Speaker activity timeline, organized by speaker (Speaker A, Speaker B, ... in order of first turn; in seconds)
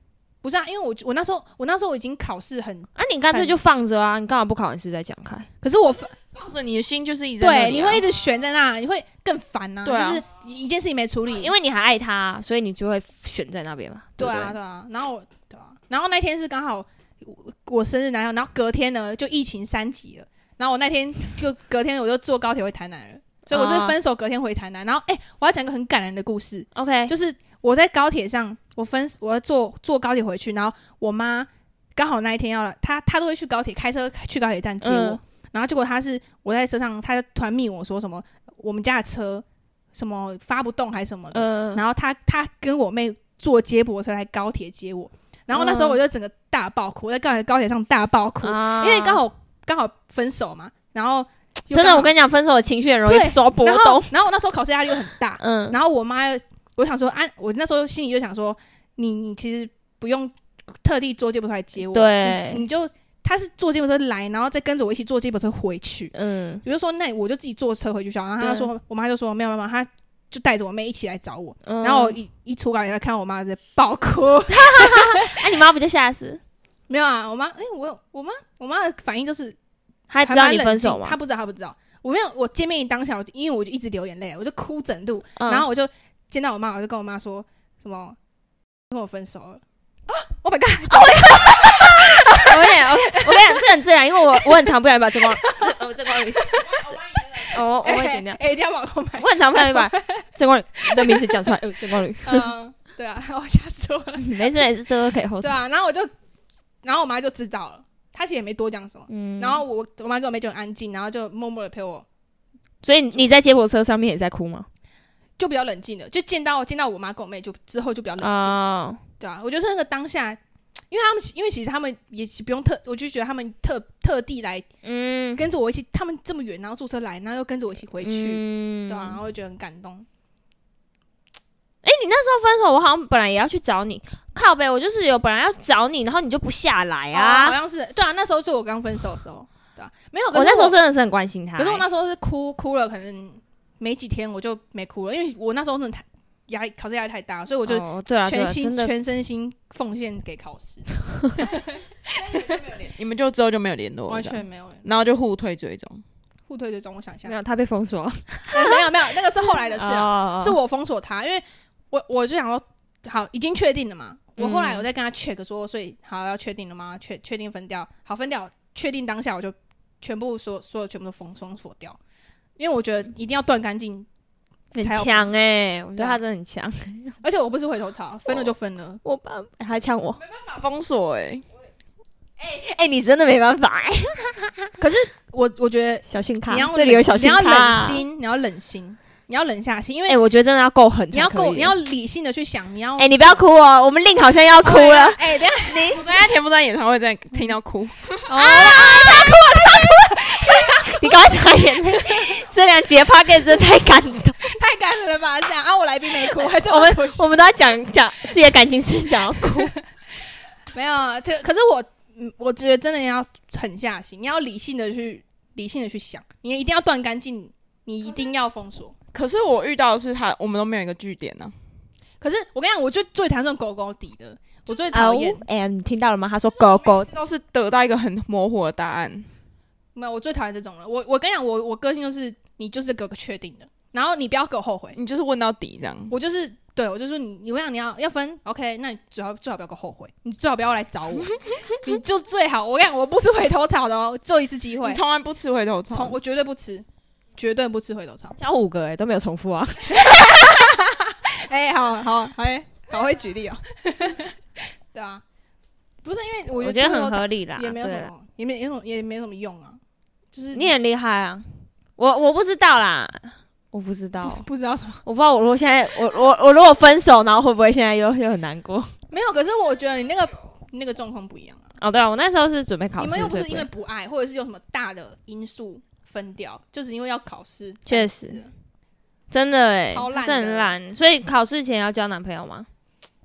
Speaker A: 0.4-3.6, 5.6-6.1, 7.4-11.5, 14.2-52.1, 53.0-75.5, 76.9-79.6, 80.2-88.2, 88.9-100.3, 100.9-101.6, 102.1-104.5, 105.4-106.1, 106.8-112.0, 115.4-118.6, 119.2-120.4, 120.9-124.7, 125.3-130.1, 137.1-140.8, 141.6-151.7, 152.2-152.7, 154.1-154.8, 156.5-157.3, 158.5-172.0, 172.6-174.1, 174.8-175.3, 177.2-179.0, 184.8-190.2, 191.1-193.4, 194.6-196.0, 198.3-202.4, 204.5-207.3, 210.7-218.9, 222.2-225.4, 229.9-235.0, 236.1-245.0, 245.9-248.4, 249.9-255.2, 256.0-259.8, 260.3-260.7, 264.2-265.0, 269.1-271.7, 273.0-278.5, 279.9-280.8
Speaker B: 3.0-5.5, 11.3-14.6, 23.5-23.9, 26.7-27.1, 34.8-35.2, 41.3-41.8, 45.5-46.0, 48.4-49.2, 51.7-54.1, 55.4-55.8, 61.9-62.6, 66.1-66.6, 68.4-68.7, 71.6-72.2, 74.5-76.4, 80.1-81.2, 85.4-85.6, 91.1-96.8, 97.5-98.4, 99.2-102.5, 104.2-105.6, 109.1-109.6, 112.8-114.7, 118.2-119.0, 124.8-125.4, 128.0-129.2, 131.8-137.6, 140.3-141.8, 147.7-148.9, 157.2-158.8, 159.7-160.6, 164.4-164.8, 174.7-177.2, 179.0-180.2, 182.4-184.7, 186.1-188.0, 190.1-191.7, 193.0-196.0, 198.3-204.6, 206.4-209.8, 224.9-227.1, 248.4-250.6, 256.5-258.1, 260.5-264.4, 265.0-268.9, 271.8-273.7, 277.9-278.4, 279.3-282.7
Speaker C: 6.2-8.0, 9.8-10.2, 96.9-97.2, 152.3-156.0, 180.2-181.5, 195.9-198.3, 219.1-221.5, 226.8-229.3, 234.9-236.1, 244.8-246.2